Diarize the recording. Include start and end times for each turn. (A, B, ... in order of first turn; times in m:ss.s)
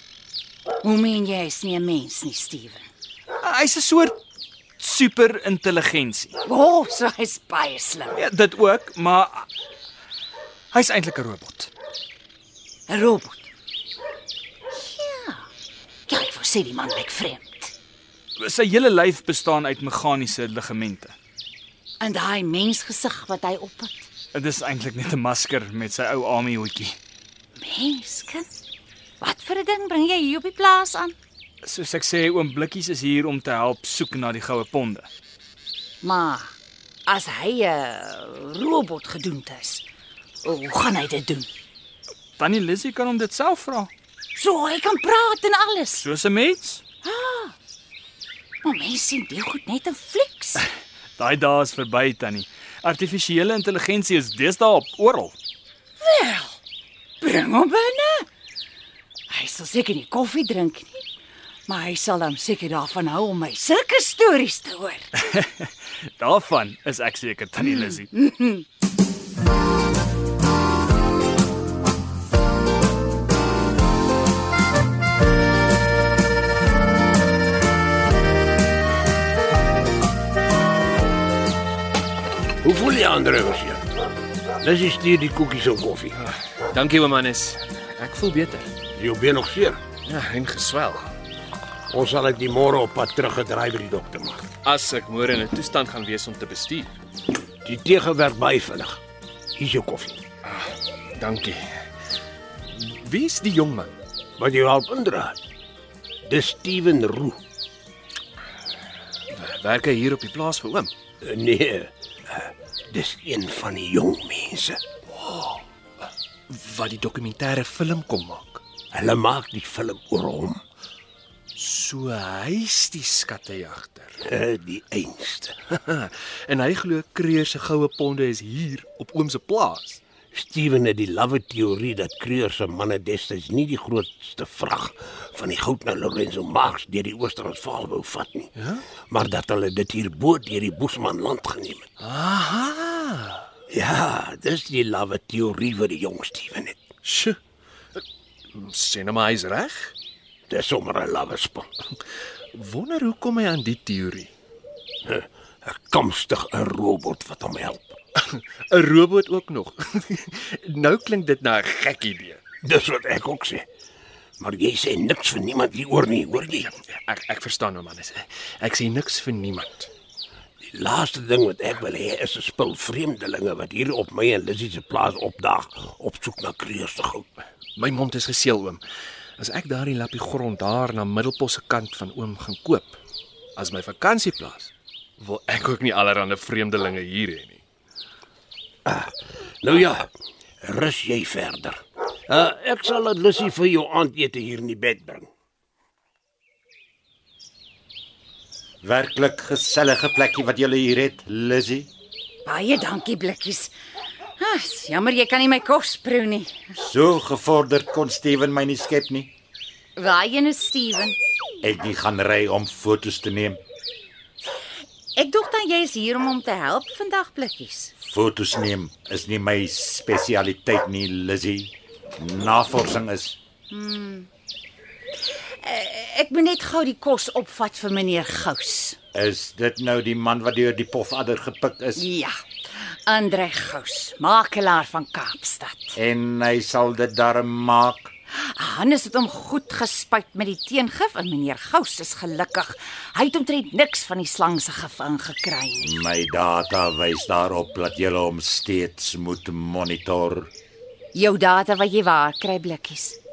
0:00.8-0:02.9 A
0:03.4-0:04.2 B
0:04.8-0:06.4 B
0:06.4-0:08.2 A
0:08.2-0:09.5 B
0:10.7-0:11.7 B
0:12.9-0:13.5 A
0:14.7-0:15.5 A
0:16.1-0:17.7 A
0:18.4-0:21.2 B
0:22.0-0:24.1 A
0:24.3-0:27.0 B
0:27.6-0:28.5 A
0:29.2-0:31.2 A
0:31.6-0:35.1 B
0:36.0-0:36.5 A
0:37.1-0:39.8 A
0:40.4-0:41.5 A
0:42.4-0:43.9 B
0:44.4-0:46.0 A
0:46.0-0:46.8 B
0:47.0-0:47.6 A
0:48.6-0:50.6 A
0:51.2-0:55.4 B
0:56.0-0:56.6 A
0:57.2-0:58.3 A
0:59.3-1:01.1 A
1:01.7-1:05.1 A
1:05.2-1:08.1 B
1:07.6-1:08.6 A
1:22.6-1:23.8 C
1:24.6-1:26.2 C
1:26.1-1:28.7 D
1:29.0-1:29.8 C
1:30.0-1:31.1 D
1:31.9-1:34.5 C
1:34.6-1:36.9 D
1:37.6-1:39.0 C
1:39.6-1:40.2 C
1:40.4-1:41.6 D
1:42.7-1:43.9 D
1:44.4-1:45.4 C
1:46.2-1:47.4 C
1:49.3-1:50.9 D
1:51.2-1:54.8 C
1:55.2-1:55.6 D
1:56.5-1:58.6 D
1:58.9-2:00.6 C
2:01.6-2:04.2 D
2:04.2-2:05.6 C
2:05.7-2:10.0 D
2:10.3-2:18.5 C
2:18.6-2:18.8 D
2:19.1-2:21.9 C
2:22.0-2:23.5 D
2:23.7-2:26.8 C
2:27.0-2:27.4 D
2:28.5-2:29.9 D
2:30.5-2:31.7 C
2:32.5-2:34.3 D
2:35.0-2:38.0 C
2:38.2-2:42.4 D
2:42.6-2:43.7 C
2:44.4-2:46.7 C
2:46.6-2:49.9 D
2:50.6-2:57.2 C
2:57.8-2:58.8 D
2:59.4-3:03.0 D
3:03.6-3:07.6 D
3:08.8-3:10.1 C
3:10.6-3:15.3 C
3:18.8-3:21.9 E
3:22.4-3:23.7 A
3:24.4-3:26.6 A
3:26.8-3:29.3 E
3:30.0-3:31.2 A
3:31.6-3:33.6 E
3:35.2-3:37.9 A
3:38.0-3:43.4 E
3:43.7-3:44.3 A
3:45.5-3:49.0 A
3:49.1-3:52.0 E
3:52.0-3:52.4 A
3:53.1-3:56.0 A
3:56.0-3:58.1 E
3:58.5-4:06.0 A
4:05.8-4:10.5 E
4:11.1-4:13.2 A